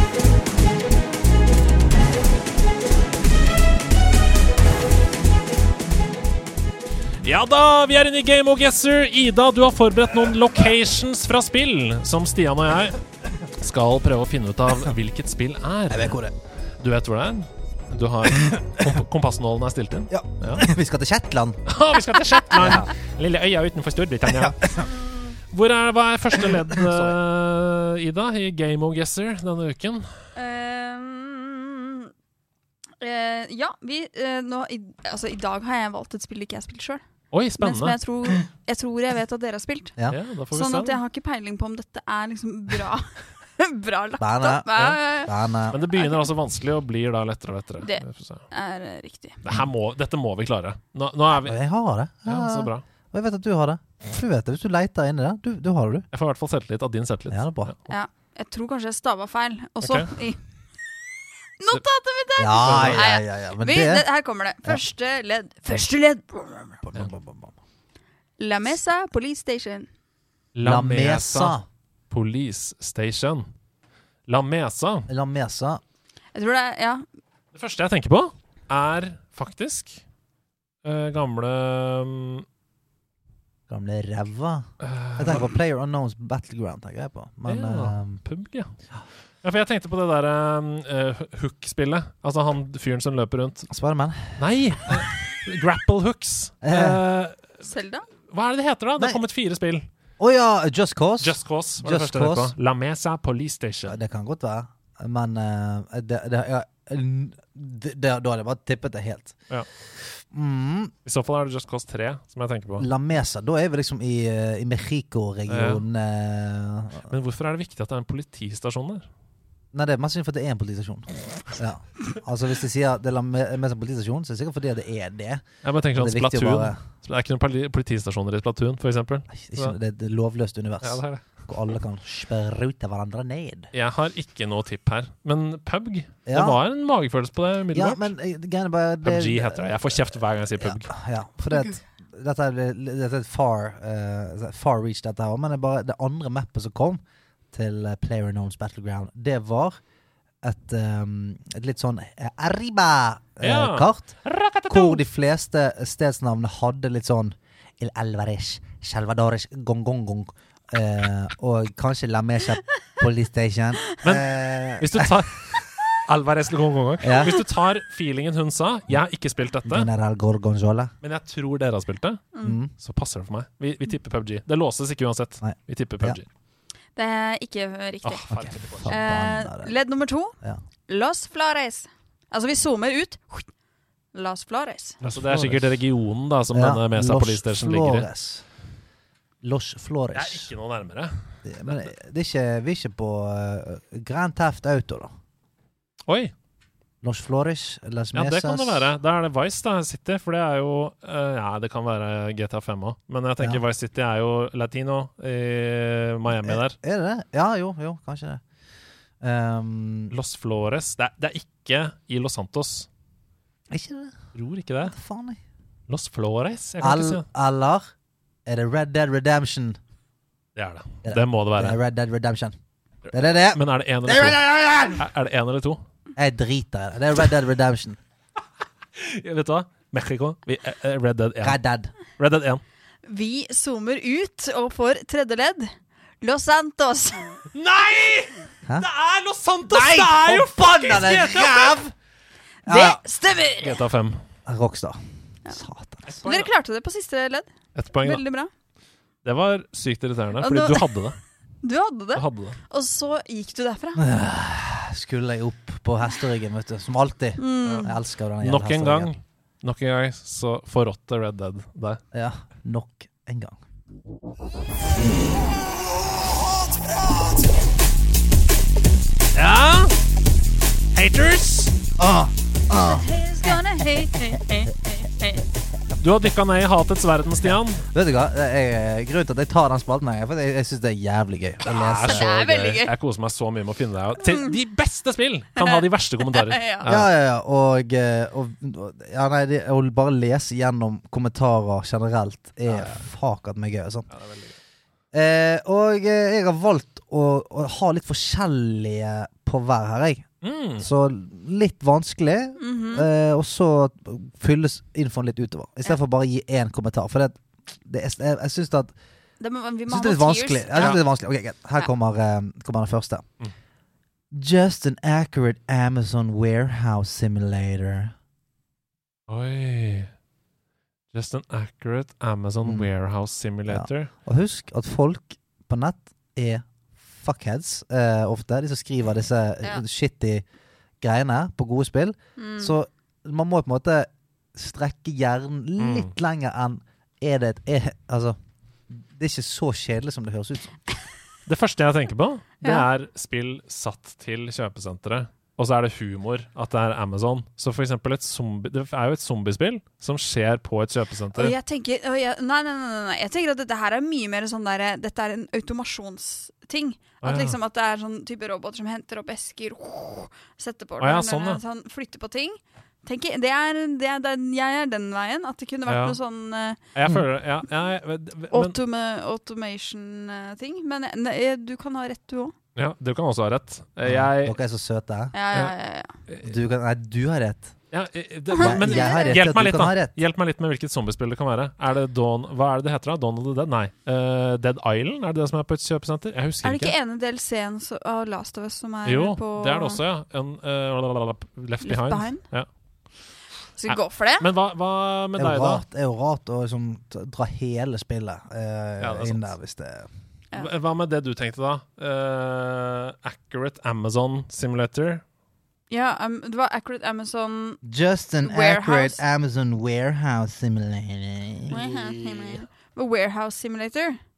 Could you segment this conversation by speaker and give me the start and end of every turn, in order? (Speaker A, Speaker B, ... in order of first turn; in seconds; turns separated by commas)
Speaker A: 7.2-13.0, Speaker A: 13.6-16.2, Speaker B: 15.9-16.4, Speaker A: 16.8-20.7, Speaker B: 20.1-21.6, Speaker A: 21.7-24.9, Speaker B: 22.6-22.9, Speaker B: 24.3-24.9, Speaker A: 25.5-30.3, Speaker B: 26.4-27.1, Speaker C: 30.4-32.1, Speaker C: 33.0-37.0, Speaker A: 37.3-38.0, Speaker C: 37.6-40.0, Speaker A: 40.1-41.0, Speaker C: 40.5-45.4, Speaker B: 44.2-45.8, Speaker A: 45.7-48.4, Speaker C: 45.9-46.3, Speaker C: 47.8-49.5, Speaker A: 49.5-51.6, Speaker B: 51.4-56.1, Speaker A: 52.2-52.9, Speaker A: 56.1-57.8, Speaker B: 57.3-57.7, Speaker C: 57.9-60.4, Speaker A: 59.8-60.1, Speaker C: 61.6-66.8, Speaker B: 62.4-64.0, Speaker A: 62.6-63.0, Speaker B: 66.8-67.5, Speaker C: 68.4-69.9, Speaker A: 70.5-71.6, Speaker B: 70.6-71.7, Speaker A: 72.1-73.5, Speaker A: 74.3-75.1, Speaker B: 75.1-75.8, Speaker C: 76.3-77.0, Speaker A: 77.5-80.0, Speaker A: 80.8-82.5, Speaker B: 83.7-88.2, Speaker A: 84.8-85.5, Speaker A: 87.5-88.8, Speaker A: 89.4-93.7, Speaker B: 93.7-94.4, Speaker A: 94.3-97.6, Speaker B: 96.6-97.0, Speaker C: 97.6-98.1, Speaker A: 98.3-99.9, Speaker B: 100.2-102.5, Speaker A: 101.2-104.0, Speaker B: 103.9-109.4, Speaker B: 110.0-110.9, Speaker A: 111.0-112.9, Speaker B: 112.8-117.1, Speaker A: 115.5-115.8, Speaker A: 117.1-119.1, Speaker B: 119.7-126.8, Speaker A: 125.6-129.8, Speaker B: 129.3-133.7, Speaker A: 130.8-131.4, Speaker A: 133.7-138.1, Speaker B: 136.3-136.6, Speaker B: 137.7-140.0, Speaker A: 139.0-140.9, Speaker B: 140.6-147.0, Speaker B: 147.5-149.8, Speaker B: 150.4-154.2, Speaker A: 153.4-155.0, Speaker B: 154.7-165.1, Speaker A: 164.0-169.9, Speaker B: 167.0-167.4, Speaker B: 169.7-170.9, Speaker A: 171.0-176.2, Speaker B: 172.4-172.7, Speaker B: 175.4-176.2, Speaker C: 177.0-183.5, Speaker A: 178.0-179.0, Speaker B: 178.3-179.8, Speaker C: 184.1-185.0, Speaker A: 185.0-188.1, Speaker B: 185.0-185.7, Speaker B: 186.5-188.5, Speaker B: 189.4-190.5, Speaker A: 190.1-191.8, Speaker B: 191.4-195.1, Speaker A: 196.1-196.3, Speaker B: 197.0-198.9, Speaker A: 198.2-206.8, Speaker B: 206.3-208.4, Speaker B: 209.2-210.1, Speaker A: 210.1-212.9, Speaker B: 213.7-214.2, Speaker A: 214.3-215.0, Speaker B: 214.9-215.4, Speaker A: 215.9-217.2, Speaker B: 216.8-217.8, Speaker B: 218.5-219.8, Speaker A: 220.6-221.8, Speaker B: 221.0-222.6, Speaker B: 223.1-225.1, Speaker A: 223.5-225.8, Speaker B: 226.2-228.0, Speaker A: 229.0-231.6, Speaker B: 231.4-231.9, Speaker A: 232.2-232.6, Speaker C: 233.1-235.7, Speaker C: 236.2-237.4, Speaker A: 237.5-241.8, Speaker B: 239.7-241.9, Speaker B: 242.7-243.0, Speaker C: 242.7-243.8, Speaker A: 243.6-244.2, Speaker B: 244.5-246.2, Speaker A: 246.1-246.5, Speaker C: 246.2-248.5, Speaker A: 247.8-248.2, Speaker A: 249.2-251.2, Speaker C: 250.4-250.9, Speaker C: 251.6-254.0, Speaker A: 252.2-252.6, Speaker B: 254.0-259.1, Speaker C: 257.4-257.9, Speaker A: 257.6-262.0, Speaker B: 262.1-263.6, Speaker A: 269.3-269.9, Speaker A: 270.9-271.7, Speaker B: 272.0-273.1, Speaker C: 272.8-275.4, Speaker A: 276.0-277.8, Speaker B: 277.9-282.3, Speaker A: 281.6-287.1, Speaker C: 282.0-282.9, Speaker C: 284.2-284.5, Speaker C: 285.6-286.9, Speaker B: 286.9-294.1, Speaker A: 292.7-293.0, Speaker A: 294.1-294.6, Speaker B: 295.1-308.9, Speaker A: 300.4-300.9, Speaker C: 302.6-303.1, Speaker C: 309.4-311.0, Speaker B: 309.9-313.2, Speaker B: 314.3-318.1, Speaker A: 319.3-320.1, Speaker A: 321.1-324.1, Speaker B: 322.6-322.9, Speaker B: 323.7-330.4, Speaker B: 331.0-338.4, Speaker C: 332.4-332.8, Speaker A: 335.8-336.1, Speaker B: 338.9-340.8, Speaker A: 341.5-351.5, Speaker C: 351.4-366.8, Speaker A: 357.2-357.6, Speaker A: 361.0-361.6, Speaker A: 365.9-366.2, Speaker A: 366.9-368.8, Speaker C: 368.5-372.6, Speaker A: 372.8-374.6, Speaker B: 374.0-375.3, Speaker C: 375.3-376.1, Speaker A: 376.3-376.6, Speaker B: 376.4-377.8, Speaker A: 377.9-386.9, Speaker C: 378.6-379.4, Speaker B: 378.6-380.2, Speaker C: 386.6-390.0, Speaker A: 389.1-392.7, Speaker C: 391.8-392.4, Speaker C: 393.8-394.5, Speaker A: 393.9-395.8, Speaker B: 395.4-400.1, Speaker A: 399.0-399.5, Speaker A: 400.6-405.2, Speaker C: 405.9-407.8, Speaker B: 407.8-411.8, Speaker C: 408.4-409.2, Speaker C: 411.7-414.2